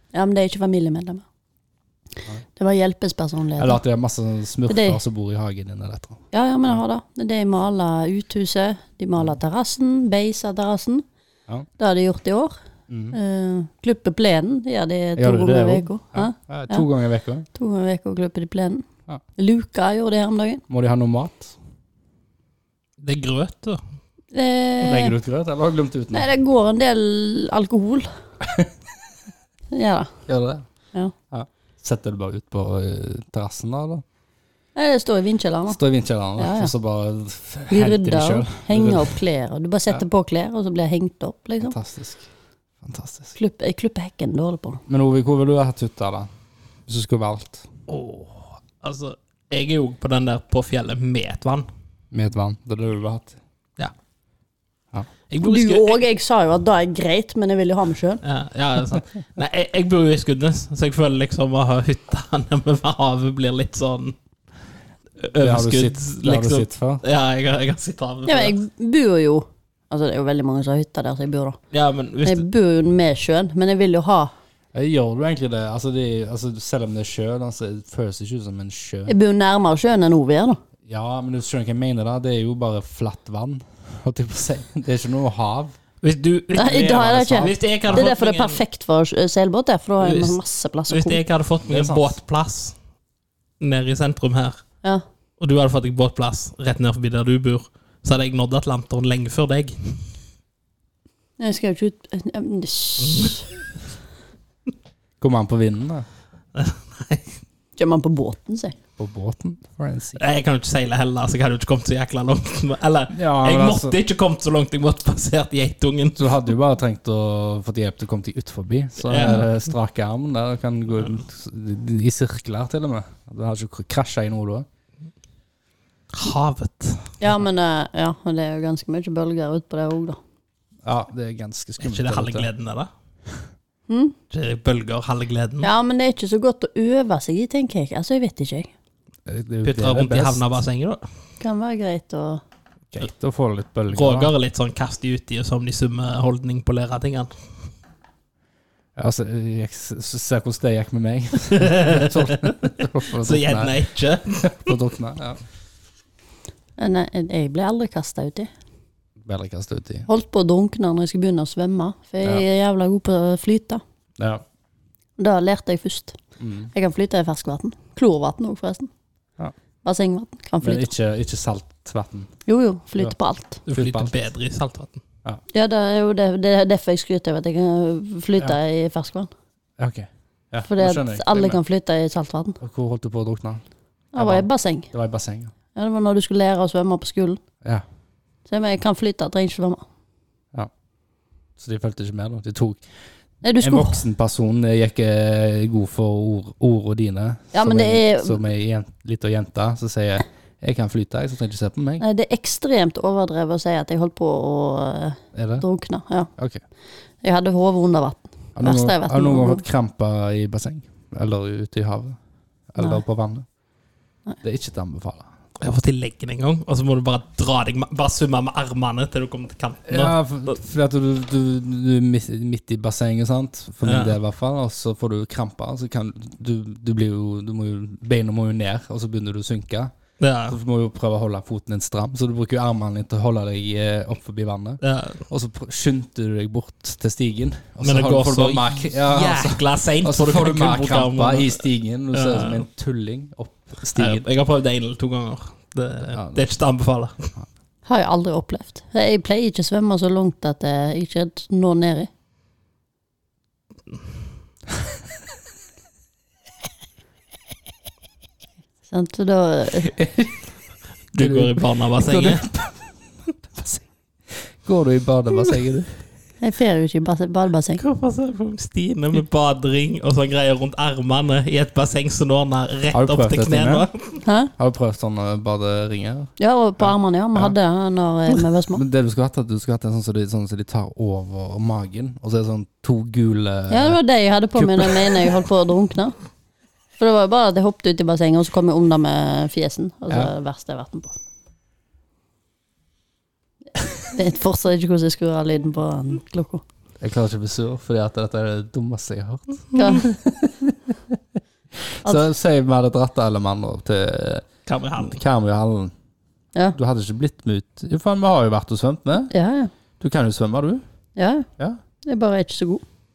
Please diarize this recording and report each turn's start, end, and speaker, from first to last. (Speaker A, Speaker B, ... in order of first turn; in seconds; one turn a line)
Speaker A: 0.1-1.2
Speaker A: 2.6-3.8
Speaker B: 3.6-6.2
Speaker A: 4.7-5.0
Speaker A: 6.3-11.0
Speaker A: 11.8-12.6
Speaker B: 12.9-13.2
Speaker A: 13.1-16.9
Speaker B: 15.2-17.5
Speaker A: 17.5-18.9
Speaker A: 19.4-20.6
Speaker B: 20.7-21.6
Speaker C: 23.0-23.8
Speaker A: 24.3-25.1
Speaker B: 24.8-26.3
Speaker A: 26.1-28.1
Speaker B: 28.4-28.7
Speaker A: 29.7-30.1
Speaker B: 30.3-30.7
Speaker B: 31.3-34.0
Speaker A: 34.8-35.8
Speaker B: 35.7-39.2
Speaker A: 36.4-36.7
Speaker A: 37.7-41.8
Speaker B: 41.6-42.2
Speaker B: 42.8-43.4
Speaker A: 43.4-44.8
Speaker B: 44.9-46.3
Speaker B: 46.9-47.6
Speaker C: 47.9-51.7
Speaker B: 52.1-53.4
Speaker C: 55.3-56.0
Speaker A: 55.4-58.2
Speaker C: 58.2-64.2
Speaker C: 65.2-68.6
Speaker B: 65.4-67.0
Speaker A: 68.3-71.6
Speaker C: 71.7-72.5
Speaker A: 72.2-74.3
Speaker B: 74.7-79.1
Speaker A: 79.1-80.6
Speaker B: 80.9-85.8
Speaker C: 86.0-88.6
Speaker B: 86.6-88.1
Speaker A: 86.6-91.2
Speaker C: 90.0-90.4
Speaker C: 90.9-92.8
Speaker B: 91.6-92.2
Speaker C: 93.6-94.6
Speaker C: 95.4-100.1
Speaker A: 101.4-103.4
Speaker C: 103.0-103.4
Speaker B: 105.2-106.1
Speaker C: 106.5-107.3
Speaker A: 107.8-108.8
Speaker B: 109.0-110.2
Speaker C: 110.2-116.4
Speaker B: 113.1-114.0
Speaker B: 116.2-124.7
Speaker C: 119.1-119.5
Speaker C: 126.1-127.2
Speaker A: 127.2-130.2
Speaker B: 130.8-132.5
Speaker C: 131.8-132.9
Speaker A: 133.9-134.2
Speaker C: 134.3-135.7
Speaker A: 135.6-138.7
Speaker B: 139.3-140.4
Speaker C: 139.6-141.0
Speaker A: 141.4-142.4
Speaker B: 142.9-144.3
Speaker C: 143.9-147.3
Speaker B: 149.0-153.7
Speaker C: 151.5-152.6
Speaker C: 153.2-154.8
Speaker B: 154.4-155.4
Speaker A: 156.8-158.5
Speaker B: 159.2-160.1
Speaker A: 160.1-163.8
Speaker B: 164.2-164.4
Speaker A: 165.2-166.2
Speaker B: 166.4-166.7
Speaker A: 166.7-168.9
Speaker A: 169.8-170.9
Speaker B: 170.6-172.3
Speaker A: 172.5-173.6
Speaker C: 173.7-175.0
Speaker B: 173.7-174.1
Speaker A: 175.5-179.3
Speaker B: 179.8-181.6
Speaker A: 180.7-182.6
Speaker B: 182.6-183.6
Speaker A: 184.1-184.9
Speaker B: 184.2-185.5
Speaker A: 185.8-187.4
Speaker A: 188.5-189.8
Speaker B: 191.6-192.8
Speaker A: 193.4-194.0
Speaker B: 193.6-202.0
Speaker A: 197.5-198.4
Speaker A: 202.0-206.3
Speaker B: 205.3-205.7
Speaker B: 206.4-206.6
Speaker A: 207.2-209.6
Speaker B: 208.6-212.2
Speaker B: 212.7-213.5
Speaker B: 214.4-215.3
Speaker C: 215.6-220.5
Speaker B: 219.9-229.9
Speaker C: 223.8-224.2
Speaker C: 230.2-230.6
Speaker B: 230.5-244.2
Speaker C: 234.8-235.2
Speaker C: 237.8-242.7
Speaker C: 243.9-247.3
Speaker B: 246.1-246.4
Speaker A: 247.9-252.1
Speaker A: 258.9-259.9
Speaker B: 259.9-260.5
Speaker C: 261.1-262.4
Speaker B: 261.2-266.0
Speaker A: 266.4-267.8
Speaker C: 267.8-274.2
Speaker B: 272.9-273.9
Speaker A: 274.2-274.5
Speaker B: 274.6-277.6
Speaker A: 276.4-278.8
Speaker B: 278.7-284.0
Speaker A: 283.7-286.1
Speaker B: 284.6-285.4
Speaker A: 287.0-291.2
Speaker A: 294.1-296.6
Speaker B: 297.0-301.2
Speaker A: 299.8-300.1
Speaker B: 301.8-304.5
Speaker C: 304.7-305.2
Speaker B: 305.0-305.9
Speaker B: 306.7-309.3
Speaker A: 309.3-309.7
Speaker B: 310.0-310.8
Speaker A: 311.2-311.5
Speaker A: 312.1-312.8